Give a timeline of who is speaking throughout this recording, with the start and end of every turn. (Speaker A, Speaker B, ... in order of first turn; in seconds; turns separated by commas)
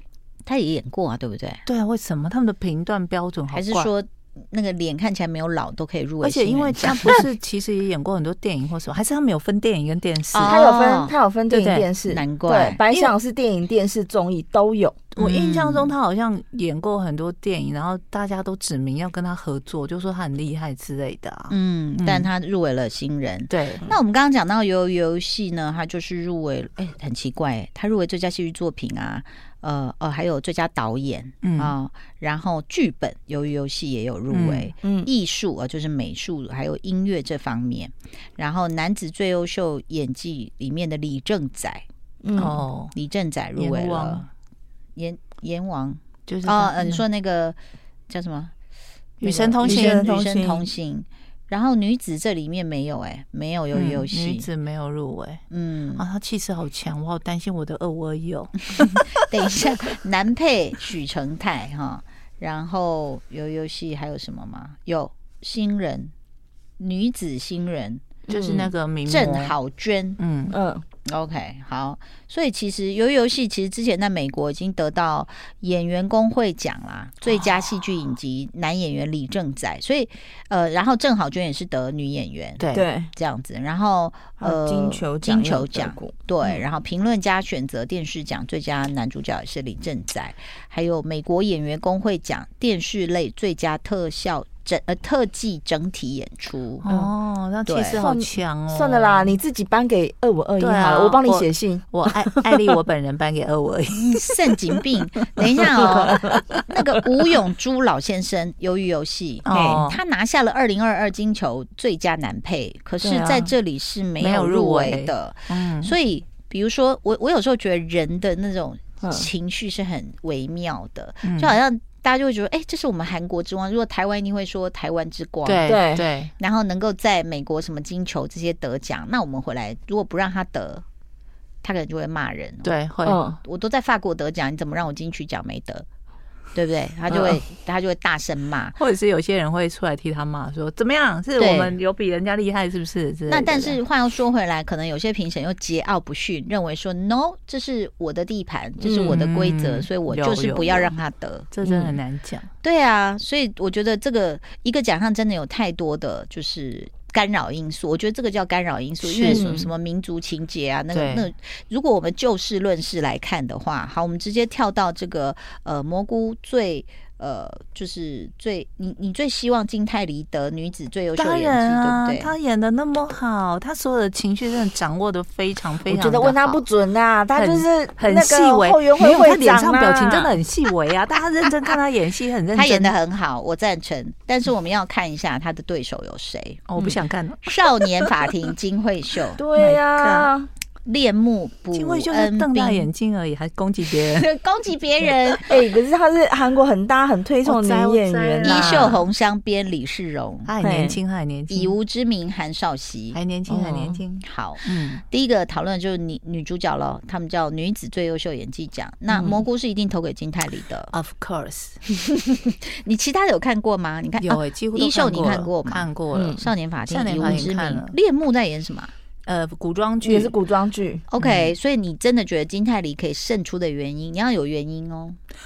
Speaker A: 0.4-1.6, Speaker B: 1.6-3.9, Speaker A: 3.5-7.2, Speaker B: 6.2-10.6, Speaker A: 10.3-11.1, Speaker C: 10.4-15.1, Speaker B: 11.5-11.9, Speaker A: 12.1-12.8, Speaker B: 12.9-13.2, Speaker B: 15.1-22.3, Speaker A: 15.2-15.9, Speaker A: 21.5-41.8, Speaker B: 23.5-23.8, Speaker B: 31.4-31.7, Speaker B: 34.3-34.7, Speaker C: 34.8-35.1, Speaker C: 42.2-42.6, Speaker B: 42.3-42.9, Speaker A: 42.4-44.2, Speaker B: 43.5-44.3, Speaker A: 45.0-47.6, Speaker B: 46.3-47.0, Speaker A: 48.1-48.5, Speaker B: 49.2-50.1, Speaker A: 49.2-54.5, Speaker C: 49.6-50.7, Speaker B: 53.7-55.4, Speaker A: 55.5-56.0, Speaker B: 56.0-59.1, Speaker A: 59.2-66.1, Speaker A: 66.8-68.2, Speaker C: 68.3-68.7, Speaker B: 68.3-69.6, Speaker A: 69.1-70.2, Speaker B: 70.2-70.6, Speaker C: 70.5-70.8, Speaker A: 71.1-96.8, Speaker B: 82.6-82.9, Speaker C: 82.7-83.1, Speaker C: 84.4-86.6, Speaker B: 96.8-99.4, Speaker A: 97.7-98.0, Speaker C: 98.0-102.3, Speaker B: 100.6-104.3, Speaker A: 103.9-125.8, Speaker B: 105.6-106.6, Speaker C: 105.9-106.3, Speaker B: 109.4-110.0, Speaker C: 109.5-109.9, Speaker C: 113.0-113.5, Speaker B: 114.2-115.9, Speaker C: 119.0-119.3, Speaker B: 121.2-121.6, Speaker B: 125.4-126.3, Speaker C: 125.6-126.1, Speaker A: 126.4-130.8, Speaker A: 131.6-132.7, Speaker B: 132.6-133.2, Speaker C: 133.1-133.4, Speaker A: 133.4-135.9, Speaker A: 136.5-138.8, Speaker C: 137.1-137.4, Speaker B: 138.8-143.8, Speaker A: 141.4-141.8, Speaker A: 143.3-151.5, Speaker C: 148.8-149.1, Speaker B: 149.1-150.9, Speaker B: 151.5-152.5, Speaker C: 151.6-152.0, Speaker A: 152.6-172.3, Speaker C: 159.2-159.7, Speaker B: 160.9-161.3, Speaker B: 171.2-176.6, Speaker C: 175.9-180.4, Speaker B: 177.3-182.9, Speaker A: 182.5-186.6, Speaker B: 186.7-187.5, Speaker A: 187.4-189.4, Speaker C: 189.4-190.5, Speaker B: 189.6-190.3, Speaker A: 190.8-192.9, Speaker B: 191.7-194.3, Speaker A: 194.0-195.6, Speaker C: 195.5-198.9, Speaker B: 197.4-199.0, Speaker A: 198.4-200.5, Speaker B: 200.4-201.7, Speaker C: 200.6-201.0, Speaker A: 201.5-203.2, Speaker B: 203.1-205.0, Speaker C: 203.5-204.0, Speaker A: 204.2-210.9, Speaker C: 209.1-209.4, Speaker B: 210.9-211.8, Speaker A: 211.9-218.9, Speaker B: 214.2-217.9, Speaker C: 216.1-216.4, Speaker B: 219.2-220.4, Speaker C: 220.0-221.1, Speaker A: 221.1-225.2, Speaker B: 221.2-221.5